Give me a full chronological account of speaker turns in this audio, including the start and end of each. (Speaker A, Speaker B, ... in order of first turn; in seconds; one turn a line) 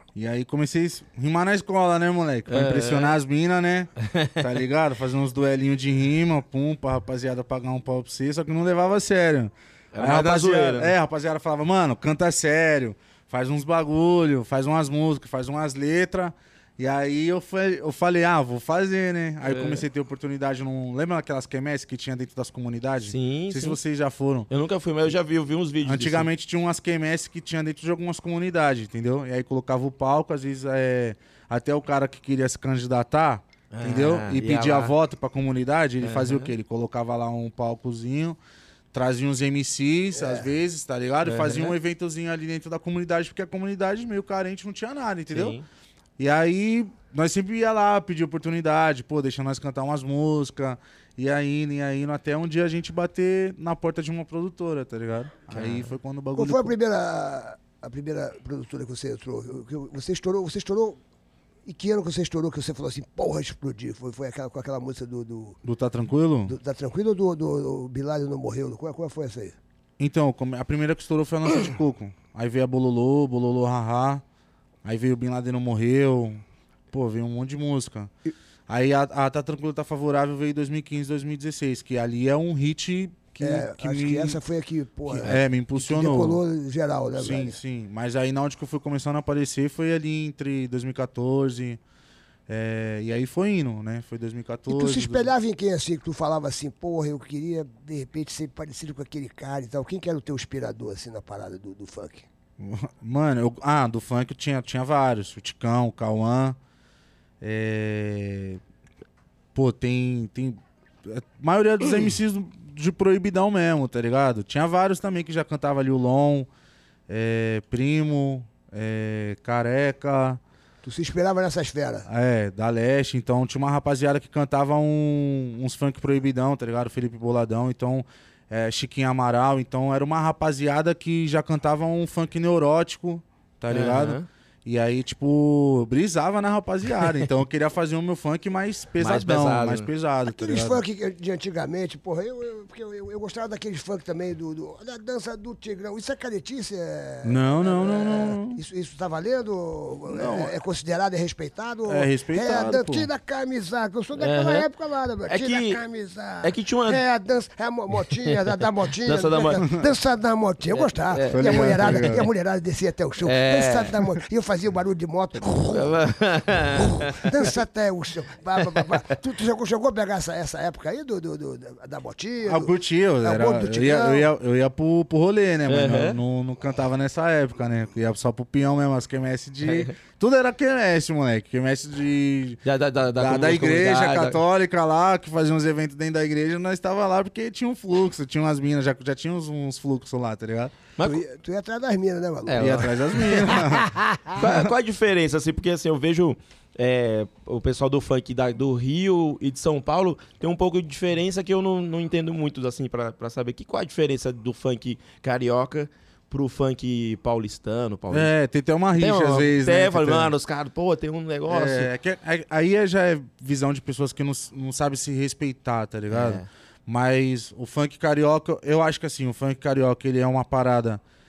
Speaker A: 0.1-24.5
Speaker B: 2.5-3.1
Speaker B: 4.0-4.4
Speaker B: 9.9-10.9
Speaker B: 19.4-19.8
Speaker B: 23.0-23.8
Speaker B: 24.5-26.3
Speaker A: 25.8-38.4
Speaker B: 33.7-34.9
Speaker B: 36.0-36.5
Speaker A: 38.9-45.6
Speaker C: 40.1-40.5
Speaker B: 41.2-41.8
Speaker B: 45.3-45.6
Speaker A: 46.2-56.8
Speaker B: 55.5-55.9
Speaker C: 56.3-61.0
Speaker C: 61.6-65.6
Speaker A: 65.6-66.6
Speaker C: 66.5-69.6
Speaker A: 70.0-74.2
Speaker A: 74.8-78.1
Speaker A: 78.7-84.4
Speaker C: 83.4-87.6
Speaker A: 85.1-86.4
Speaker A: 87.2-91.8
Speaker A: 92.5-95.3
Speaker C: 94.7-102.2
Speaker A: 102.6-106.6
Speaker A: 107.4-108.6
Speaker A: 109.5-116.5
Speaker A: 117.1-120.4
Speaker C: 120.8-122.1
Speaker A: 122.1-140.8
Speaker B: 133.7-134.2
Speaker B: 139.0-139.9
Speaker C: 140.2-166.0
Speaker A: 147.2-148.6
Speaker A: 150.1-150.5
Speaker A: 151.9-153.1
Speaker B: 154.2-154.6
Speaker B: 155.3-155.8
Speaker B: 156.4-157.0
Speaker B: 158.1-158.5
Speaker B: 159.0-159.6
Speaker A: 159.6-159.8
Speaker B: 160.7-162.2
Speaker A: 161.3-162.3
Speaker B: 163.2-164.0
Speaker B: 165.7-167.5
Speaker C: 166.5-174.3
Speaker A: 172.4-182.6
Speaker B: 175.7-176.2
Speaker B: 179.6-179.9
Speaker B: 182.6-184.4
Speaker A: 183.1-190.8
Speaker B: 191.0-191.2
Speaker C: 191.0-194.4
Speaker B: 192.5-193.2
Speaker A: 192.6-193.9
Speaker B: 194.3-208.3
Speaker A: 208.1-210.3
Speaker B: 208.9-211.9
Speaker A: 211.5-221.0
Speaker B: 216.1-216.5